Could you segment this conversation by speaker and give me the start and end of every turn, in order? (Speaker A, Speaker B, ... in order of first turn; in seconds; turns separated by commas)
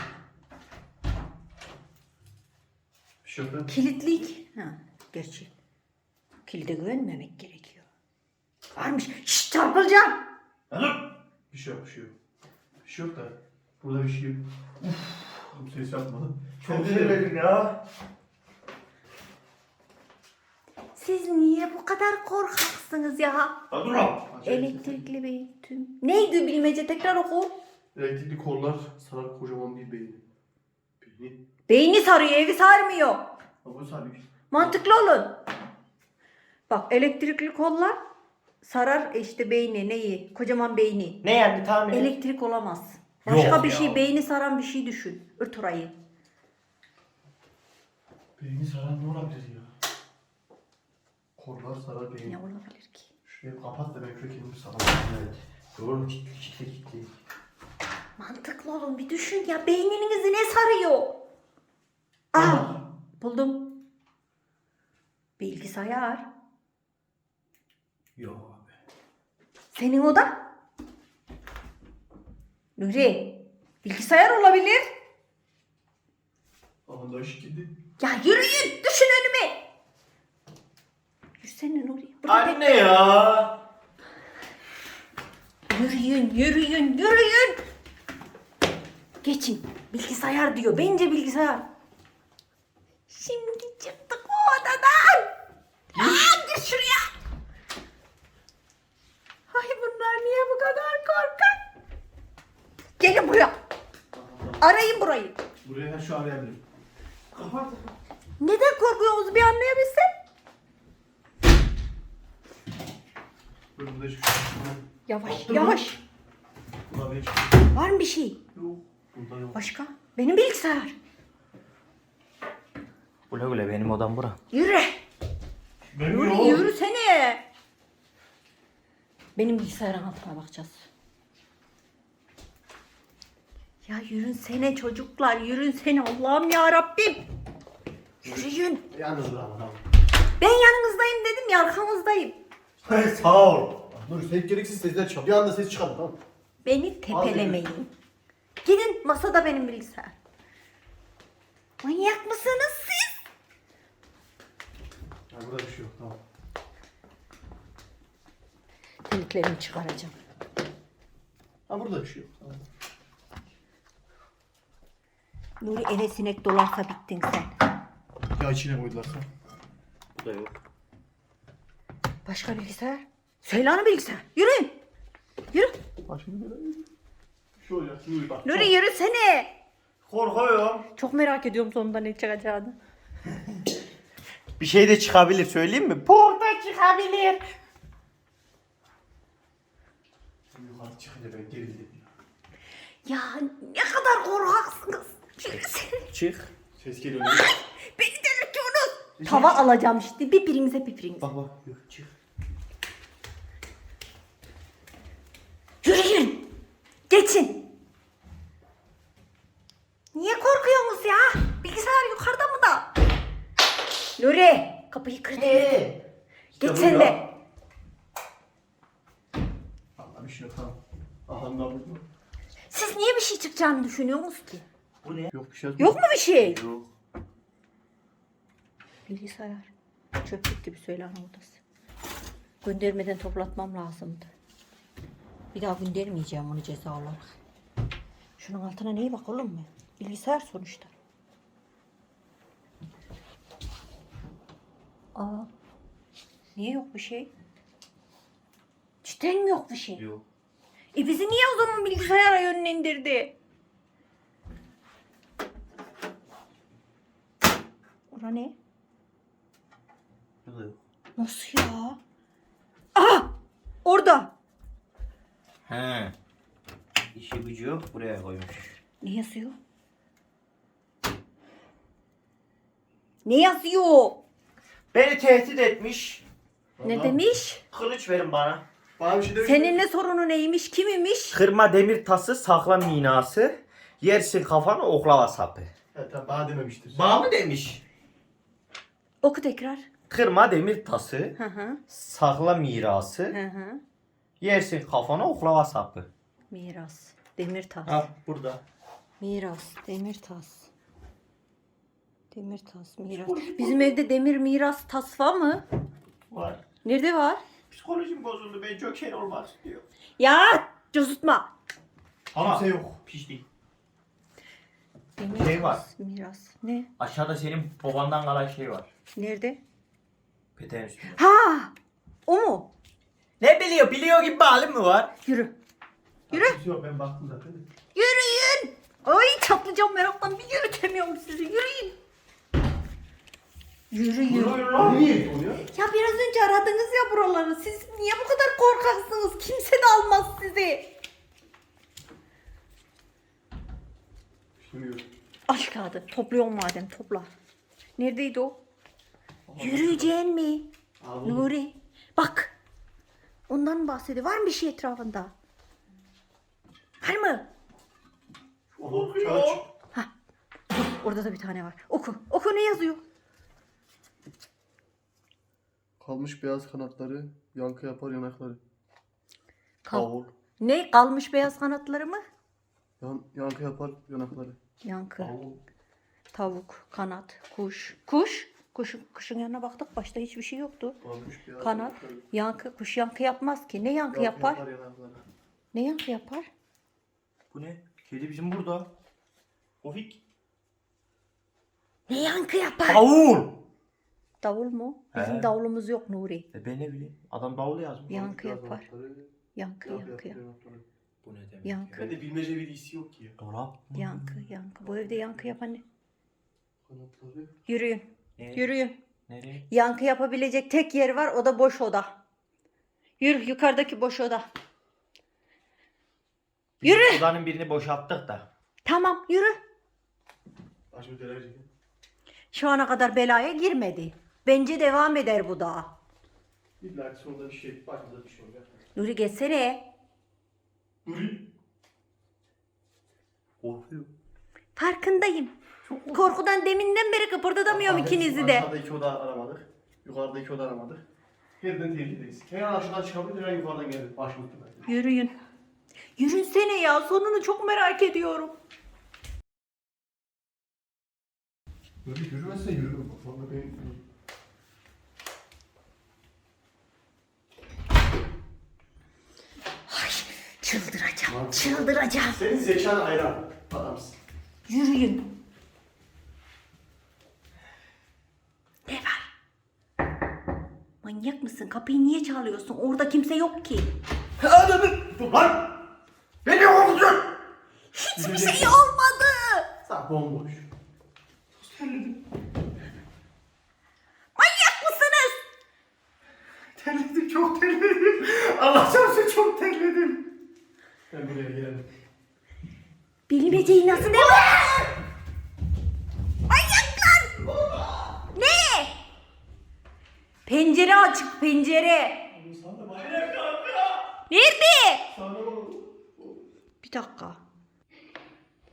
Speaker A: 3.2-3.7, Speaker B: 3.7-5.5, Speaker B: 6.5-7.9, Speaker B: 8.7-10.2, Speaker C: 10.7-11.1, Speaker A: 11.5-12.1, Speaker A: 12.8-14.4, Speaker A: 15.5-17.2, Speaker C: 16.6-17.8, Speaker B: 20.9-23.6, Speaker C: 23.7-24.2, Speaker A: 24.3-25.0, Speaker B: 24.4-27.5, Speaker A: 27.9-30.2, Speaker A: 31.0-31.4, Speaker B: 31.7-33.2, Speaker A: 33.6-34.8, Speaker B: 34.5-35.4, Speaker B: 36.7-38.0, Speaker B: 38.6-41.2, Speaker C: 41.2-42.1, Speaker B: 41.9-45.9, Speaker C: 43.2-44.0, Speaker A: 48.4-49.7, Speaker A: 51.4-52.4, Speaker B: 52.3-53.1, Speaker A: 53.3-55.1, Speaker C: 55.0-57.1, Speaker B: 58.2-61.2, Speaker B: 62.3-63.8, Speaker C: 62.4-62.7, Speaker B: 65.4-66.3, Speaker A: 68.2-68.6, Speaker B: 69.7-70.4, Speaker B: 72.8-74.8, Speaker A: 76.9-77.7, Speaker B: 78.0-79.6, Speaker B: 81.4-82.8, Speaker C: 82.3-83.6, Speaker B: 85.7-87.6, Speaker B: 89.2-91.7, Speaker B: 93.1-95.3, Speaker B: 95.9-97.1, Speaker B: 99.5-101.6, Speaker B: 103.0-103.5, Speaker A: 104.1-104.8, Speaker B: 104.6-105.4, Speaker A: 105.6-106.6, Speaker C: 107.3-107.9, Speaker B: 108.4-110.1, Speaker A: 113.8-115.9, Speaker B: 115.1-116.0, Speaker A: 116.9-117.5, Speaker B: 117.7-118.4, Speaker A: 118.5-119.6, Speaker B: 119.5-121.0, Speaker C: 123.3-124.4, Speaker B: 124.5-125.0, Speaker A: 126.0-126.7, Speaker B: 126.0-127.4, Speaker B: 129.4-130.9, Speaker B: 133.9-137.2, Speaker B: 138.2-138.8, Speaker A: 138.2-139.8, Speaker B: 140.4-142.4, Speaker C: 142.9-143.7, Speaker A: 143.7-146.2, Speaker B: 146.6-147.9, Speaker A: 147.1-147.7, Speaker B: 148.6-150.2, Speaker B: 151.8-153.2, Speaker A: 155.3-156.2, Speaker B: 159.1-160.2, Speaker A: 161.7-162.6, Speaker B: 165.6-167.5, Speaker A: 168.4-169.3, Speaker C: 170.2-170.5, Speaker B: 172.2-174.7, Speaker A: 176.1-176.8, Speaker A: 177.6-178.7, Speaker B: 178.4-179.5, Speaker C: 180.1-180.9, Speaker B: 180.9-182.8, Speaker C: 184.6-187.5, Speaker A: 190.5-192.1, Speaker B: 193.1-196.1, Speaker C: 196.1-196.5, Speaker A: 196.8-197.5, Speaker B: 197.2-201.3, Speaker A: 199.2-199.7, Speaker A: 201.2-202.1, Speaker B: 205.8-206.5, Speaker B: 207.1-207.7, Speaker B: 210.1-212.9, Speaker B: 214.2-215.7, Speaker C: 215.4-216.0, Speaker B: 216.6-217.3, Speaker A: 216.6-217.2, Speaker A: 220.0-222.0, Speaker B: 222.7-224.7, Speaker C: 225.0-225.3, Speaker A: 225.3-226.0, Speaker B: 225.8-226.6, Speaker C: 226.4-226.9, Speaker B: 229.1-231.6, Speaker B: 232.6-234.3, Speaker B: 235.5-237.3, Speaker B: 238.4-240.9, Speaker B: 245.2-245.5, Speaker B: 246.6-247.3, Speaker B: 249.0-250.0, Speaker C: 250.0-250.2, Speaker B: 250.9-253.3, Speaker B: 258.1-258.6, Speaker C: 260.4-260.8, Speaker B: 261.2-262.0, Speaker B: 262.9-263.3, Speaker B: 263.9-264.3, Speaker C: 265.7-266.1, Speaker C: 267.1-268.8, Speaker B: 269.0-269.6, Speaker B: 273.2-274.2, Speaker C: 274.9-276.2, Speaker A: 276.8-277.2, Speaker B: 276.8-277.6, Speaker C: 277.7-278.6, Speaker A: 279.0-279.9, Speaker B: 279.4-281.4, Speaker C: 281.3-285.7, Speaker A: 285.9-287.1, Speaker C: 286.9-287.8, Speaker B: 289.2-289.9, Speaker C: 290.1-291.4, Speaker B: 291.4-291.8, Speaker C: 291.9-293.4, Speaker B: 293.3-293.8, Speaker C: 294.4-296.1, Speaker B: 296.5-298.1, Speaker C: 297.9-298.6, Speaker B: 299.2-300.7, Speaker B: 302.3-305.6, Speaker C: 303.1-304.0, Speaker C: 306.3-306.6, Speaker B: 306.8-307.4, Speaker C: 307.7-309.8, Speaker B: 310.2-311.5, Speaker C: 312.3-313.4, Speaker A: 312.4-313.0, Speaker B: 315.2-316.9, Speaker C: 315.3-315.8, Speaker C: 317.0-318.9, Speaker B: 319.2-319.6, Speaker C: 320.6-321.2, Speaker B: 321.1-321.7, Speaker B: 322.3-322.7, Speaker C: 323.4-325.1, Speaker B: 325.2-325.5, Speaker A: 326.3-327.6, Speaker B: 326.3-326.6, Speaker B: 327.9-332.0, Speaker B: 333.9-334.6, Speaker C: 334.3-335.1, Speaker A: 334.7-335.6, Speaker B: 335.7-340.9, Speaker A: 344.6-345.1, Speaker B: 345.5-347.3, Speaker B: 348.0-348.6, Speaker A: 349.5-350.1, Speaker B: 349.6-350.7, Speaker A: 351.0-351.5, Speaker B: 351.2-352.5, Speaker B: 353.5-355.3, Speaker B: 357.0-357.5, Speaker A: 358.8-359.7, Speaker C: 358.8-359.7, Speaker B: 360.7-363.0, Speaker A: 366.0-368.6, Speaker B: 369.8-372.2, Speaker A: 369.9-370.3, Speaker A: 373.0-374.6, Speaker B: 374.8-375.3, Speaker A: 375.2-375.6, Speaker B: 376.3-381.0, Speaker A: 381.0-382.2, Speaker B: 381.6-384.6, Speaker A: 384.1-385.2, Speaker B: 385.7-386.5, Speaker C: 387.5-388.9, Speaker C: 389.8-390.2, Speaker B: 392.1-393.0, Speaker C: 392.9-393.6, Speaker B: 394.4-396.5, Speaker C: 395.1-395.5, Speaker C: 396.5-398.1, Speaker B: 398.1-398.9, Speaker A: 398.1-399.3, Speaker B: 399.5-400.4, Speaker A: 399.9-400.8, Speaker C: 401.2-402.1, Speaker B: 401.6-402.1, Speaker A: 401.9-403.4, Speaker C: 403.4-404.5, Speaker B: 403.9-405.8, Speaker A: 404.8-405.5, Speaker A: 406.9-407.5, Speaker B: 407.7-409.0, Speaker C: 408.4-408.7, Speaker C: 409.3-409.6, Speaker B: 409.7-412.2, Speaker B: 413.2-414.5, Speaker C: 416.8-418.4, Speaker B: 416.8-417.3, Speaker B: 418.8-419.6, Speaker A: 420.9-421.7, Speaker B: 422.5-425.9, Speaker A: 426.8-428.8, Speaker B: 428.9-429.9, Speaker A: 431.1-431.5, Speaker C: 433.6-434.1, Speaker B: 434.8-435.5, Speaker A: 435.9-436.2, Speaker B: 436.1-438.7, Speaker A: 437.7-441.0, Speaker A: 441.6-444.9, Speaker B: 444.9-445.3, Speaker B: 446.2-448.6, Speaker A: 452.0-454.0, Speaker B: 459.9-462.4, Speaker A: 461.3-464.2, Speaker B: 464.7-465.3, Speaker B: 468.9-469.3, Speaker B: 471.0-473.9, Speaker A: 474.4-475.7, Speaker C: 476.4-477.2, Speaker B: 477.9-479.7, Speaker A: 478.1-478.8, Speaker A: 479.9-480.7, Speaker B: 484.4-485.4, Speaker C: 486.8-490.2, Speaker A: 491.1-491.9, Speaker B: 493.3-494.8, Speaker A: 493.7-494.7, Speaker B: 496.5-497.3, Speaker A: 497.4-497.9, Speaker B: 498.3-498.9, Speaker B: 500.4-502.2, Speaker A: 502.3-503.4, Speaker B: 504.3-505.1, Speaker A: 505.1-506.4, Speaker B: 506.8-507.4